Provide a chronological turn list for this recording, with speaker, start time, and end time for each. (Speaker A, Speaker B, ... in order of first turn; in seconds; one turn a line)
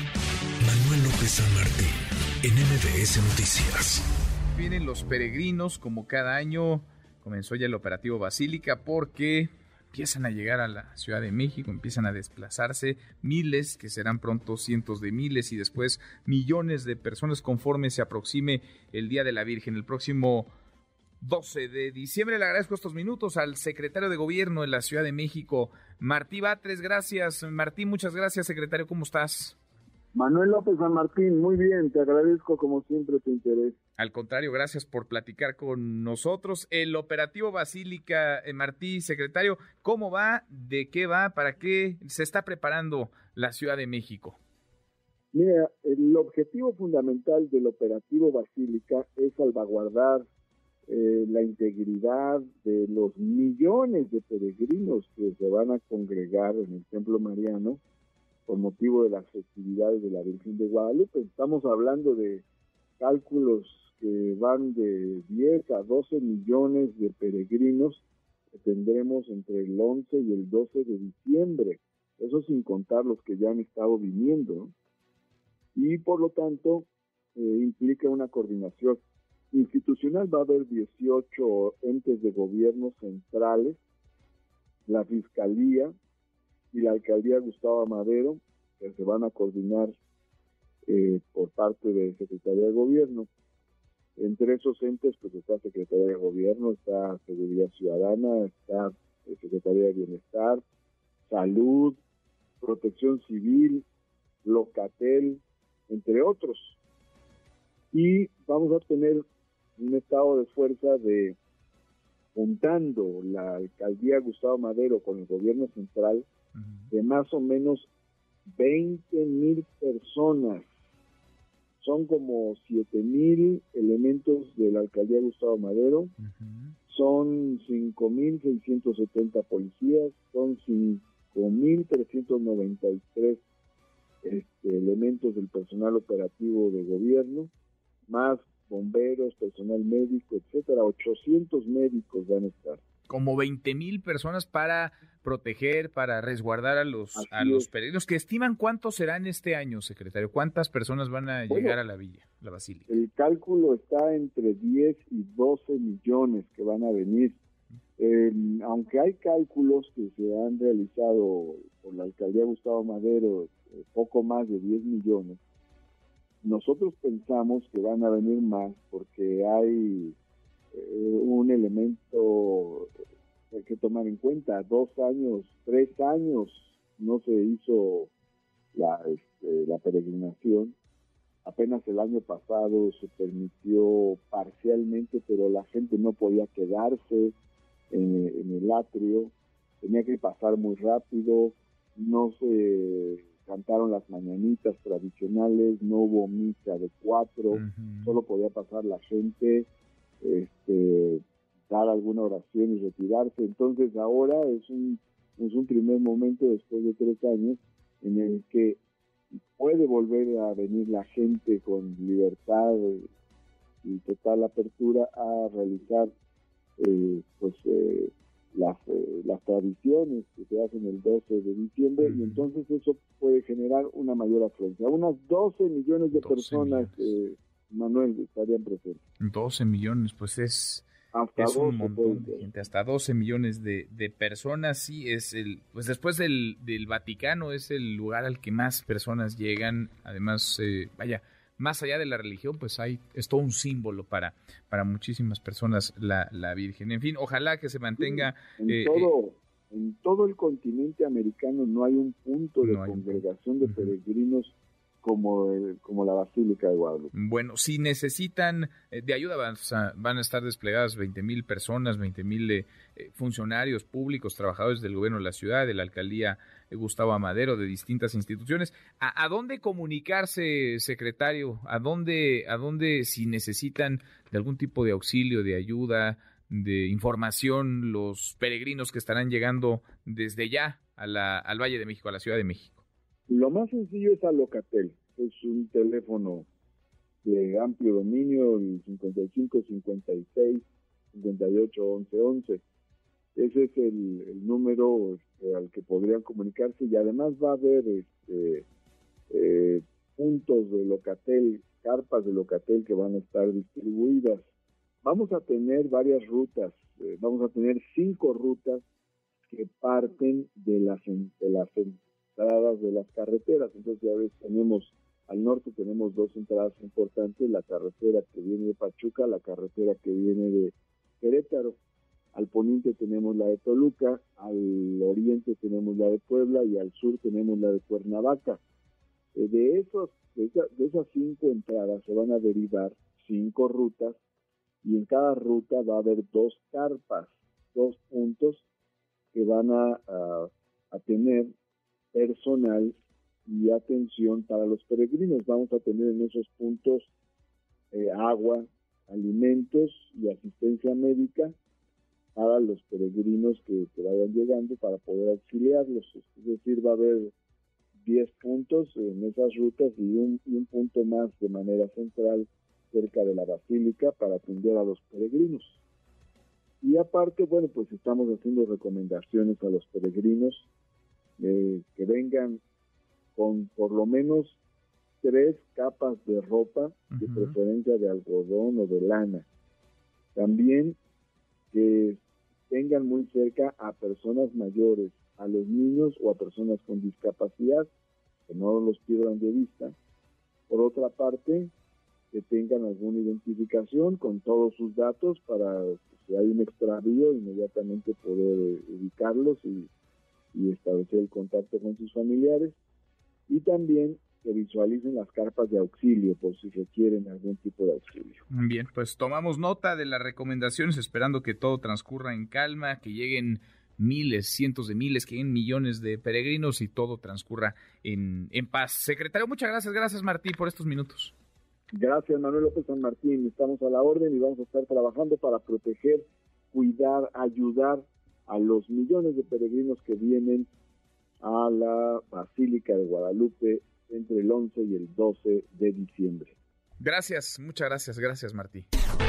Speaker A: 0.6-1.9
Speaker A: 2.4-4.0
Speaker B: 4.5-20.5
Speaker B: 21.2-29.6
Speaker C: 30.1-33.8
Speaker B: 34.0-44.4
Speaker C: 45.3-50.3
Speaker C: 50.9-57.8
Speaker C: 58.5-62.5
Speaker C: 63.0-74.7
Speaker C: 75.7-79.0
Speaker C: 79.5-83.8
Speaker C: 84.8-85.9
Speaker C: 86.7-89.9
Speaker C: 90.9-93.3
Speaker C: 94.2-100.6
Speaker C: 101.2-102.0
Speaker C: 102.6-103.8
Speaker C: 104.4-106.8
Speaker C: 107.9-109.2
Speaker C: 109.8-111.4
Speaker C: 112.3-116.3
Speaker C: 116.9-117.9
Speaker C: 118.5-120.7
Speaker C: 121.8-126.1
Speaker B: 126.2-126.7
Speaker C: 126.9-133.4
Speaker C: 134.2-137.5
Speaker C: 138.1-142.8
Speaker B: 143.1-153.0
Speaker C: 147.2-147.7
Speaker C: 151.5-151.8
Speaker C: 152.9-157.4
Speaker C: 158.0-165.4
Speaker C: 166.4-170.2
Speaker C: 170.7-172.9
Speaker C: 173.5-178.1
Speaker C: 178.7-180.8
Speaker C: 181.4-187.3
Speaker C: 187.9-199.7
Speaker B: 197.5-198.2
Speaker C: 200.2-208.8
Speaker C: 209.5-213.1
Speaker C: 213.8-216.1
Speaker C: 216.8-229.0
Speaker B: 222.0-222.4
Speaker B: 226.2-227.1
Speaker B: 229.2-249.1
Speaker C: 231.1-232.5
Speaker C: 248.0-257.1
Speaker B: 252.6-253.9
Speaker B: 257.1-282.8
Speaker C: 283.3-286.5
Speaker C: 287.2-292.6
Speaker C: 293.3-298.6
Speaker C: 299.3-304.4
Speaker C: 305.0-308.8
Speaker C: 309.5-321.8
Speaker C: 322.3-328.6
Speaker C: 329.3-334.2
Speaker C: 334.8-338.6
Speaker C: 339.3-341.5
Speaker C: 342.1-347.1
Speaker C: 347.9-351.6
Speaker C: 352.3-357.3
Speaker C: 358.0-365.8
Speaker C: 366.8-370.7
Speaker C: 371.4-372.6
Speaker C: 373.3-374.6
Speaker C: 375.2-379.4
Speaker B: 377.1-377.6
Speaker C: 380.3-381.0
Speaker C: 381.7-387.9
Speaker C: 388.5-389.9
Speaker C: 390.7-391.7
Speaker C: 392.3-399.9
Speaker C: 400.5-402.8
Speaker C: 403.5-408.4
Speaker B: 408.5-421.3
Speaker C: 421.9-430.7
Speaker C: 431.4-436.6
Speaker B: 437.0-438.9